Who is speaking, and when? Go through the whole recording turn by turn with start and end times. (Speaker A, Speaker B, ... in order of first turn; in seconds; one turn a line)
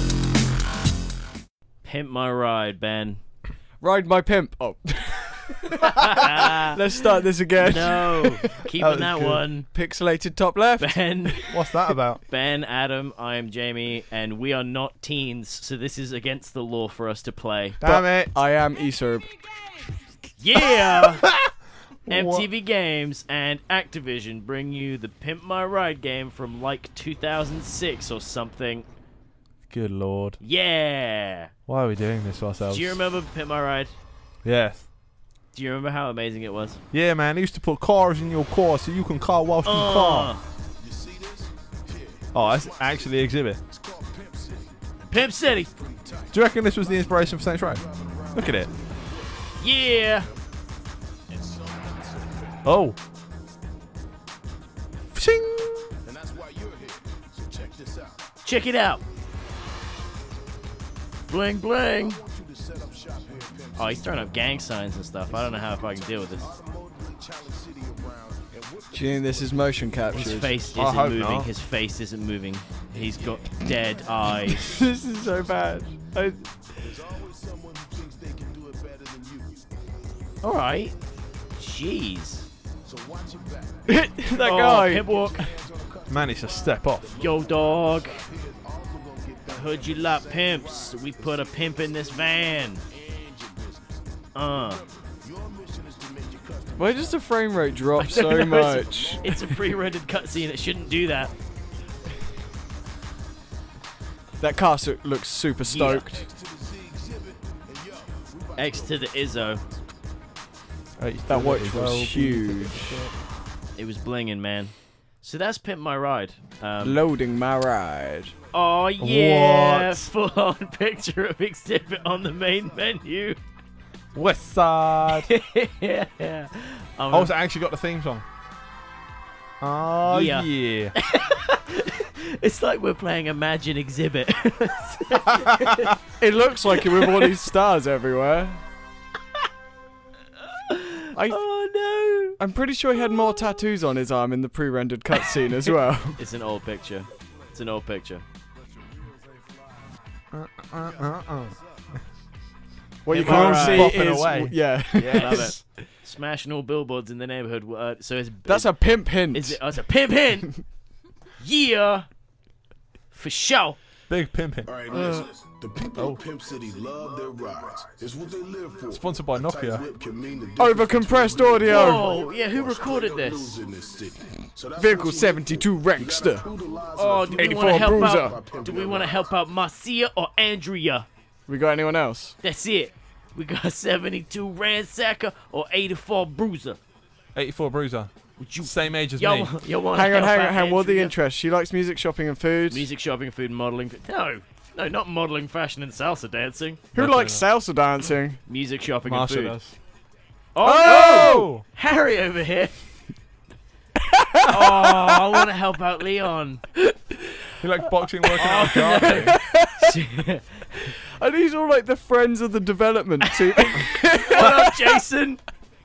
Speaker A: 1.8-3.2
Speaker B: 3.8-8.6
Speaker A: 5.9-6.8
Speaker A: 7.6-9.7
Speaker C: 8.8-9.4
Speaker B: 9.7-11.5
Speaker A: 10.8-11.6
Speaker C: 11.5-12.2
Speaker A: 12.3-17.8
Speaker C: 17.8-18.3
Speaker B: 17.8-19.3
Speaker A: 20.4-21.3
Speaker C: 21.2-21.5
Speaker C: 22.1-22.5
Speaker A: 22.1-28.9
Speaker C: 29.7-30.4
Speaker A: 30.4-31.5
Speaker C: 31.7-33.0
Speaker A: 32.7-34.0
Speaker C: 34.4-34.9
Speaker A: 35.5-36.8
Speaker C: 36.9-40.3
Speaker A: 39.6-40.4
Speaker D: 40.8-47.1
Speaker C: 42.3-43.6
Speaker A: 45.1-45.7
Speaker C: 46.3-48.7
Speaker D: 47.7-50.4
Speaker A: 49.6-50.3
Speaker D: 51.3-52.6
Speaker C: 52.6-53.0
Speaker C: 55.1-55.9
Speaker D: 56.0-58.3
Speaker A: 58.4-59.0
Speaker A: 61.3-62.2
Speaker D: 62.0-64.5
Speaker A: 63.8-66.5
Speaker D: 65.3-70.7
Speaker B: 68.9-70.6
Speaker A: 70.1-74.8
Speaker C: 70.8-71.5
Speaker D: 73.4-73.7
Speaker B: 74.6-76.5
Speaker D: 76.8-79.7
Speaker A: 80.4-81.0
Speaker A: 81.5-82.5
Speaker D: 82.8-84.0
Speaker B: 83.9-85.5
Speaker A: 84.3-85.4
Speaker D: 85.1-97.2
Speaker C: 86.1-87.1
Speaker A: 87.2-88.3
Speaker A: 89.5-92.8
Speaker A: 94.3-94.8
Speaker B: 96.8-99.3
Speaker D: 98.0-100.0
Speaker A: 98.0-101.3
Speaker B: 104.4-106.3
Speaker A: 105.7-106.1
Speaker D: 106.0-109.7
Speaker A: 108.6-109.6
Speaker C: 111.0-113.2
Speaker B: 111.3-113.0
Speaker A: 113.8-117.0
Speaker B: 116.8-118.3
Speaker A: 118.5-123.4
Speaker C: 119.0-120.1
Speaker C: 124.1-125.3
Speaker A: 125.2-127.3
Speaker C: 127.1-128.2
Speaker C: 129.6-130.9
Speaker A: 130.1-135.9
Speaker B: 136.2-138.6
Speaker A: 137.0-137.2
Speaker A: 140.7-142.4
Speaker B: 141.1-141.4
Speaker B: 142.4-146.2
Speaker A: 146.2-148.2
Speaker C: 150.3-151.6
Speaker B: 153.1-155.8
Speaker A: 153.1-154.0
Speaker C: 153.2-155.6
Speaker A: 155.1-160.8
Speaker B: 158.5-159.6
Speaker A: 161.4-162.1
Speaker A: 163.1-163.8
Speaker C: 164.1-164.8
Speaker D: 164.7-179.3
Speaker B: 164.9-165.3
Speaker C: 168.9-169.8
Speaker B: 170.6-172.1
Speaker A: 171.7-173.6
Speaker B: 174.8-176.5
Speaker A: 176.9-181.1
Speaker C: 177.4-178.2
Speaker B: 177.6-178.4
Speaker B: 181.5-182.4
Speaker A: 182.4-186.8
Speaker C: 187.3-189.6
Speaker A: 188.4-191.1
Speaker B: 189.9-192.9
Speaker A: 192.7-196.8
Speaker C: 196.9-197.4
Speaker B: 196.9-198.4
Speaker A: 198.5-199.6
Speaker C: 199.1-199.8
Speaker A: 200.5-202.9
Speaker B: 200.6-201.5
Speaker C: 200.9-201.6
Speaker B: 204.1-205.4
Speaker A: 204.5-207.1
Speaker C: 207.6-209.4
Speaker A: 208.3-210.7
Speaker B: 209.0-210.0
Speaker B: 211.2-215.0
Speaker A: 213.6-215.4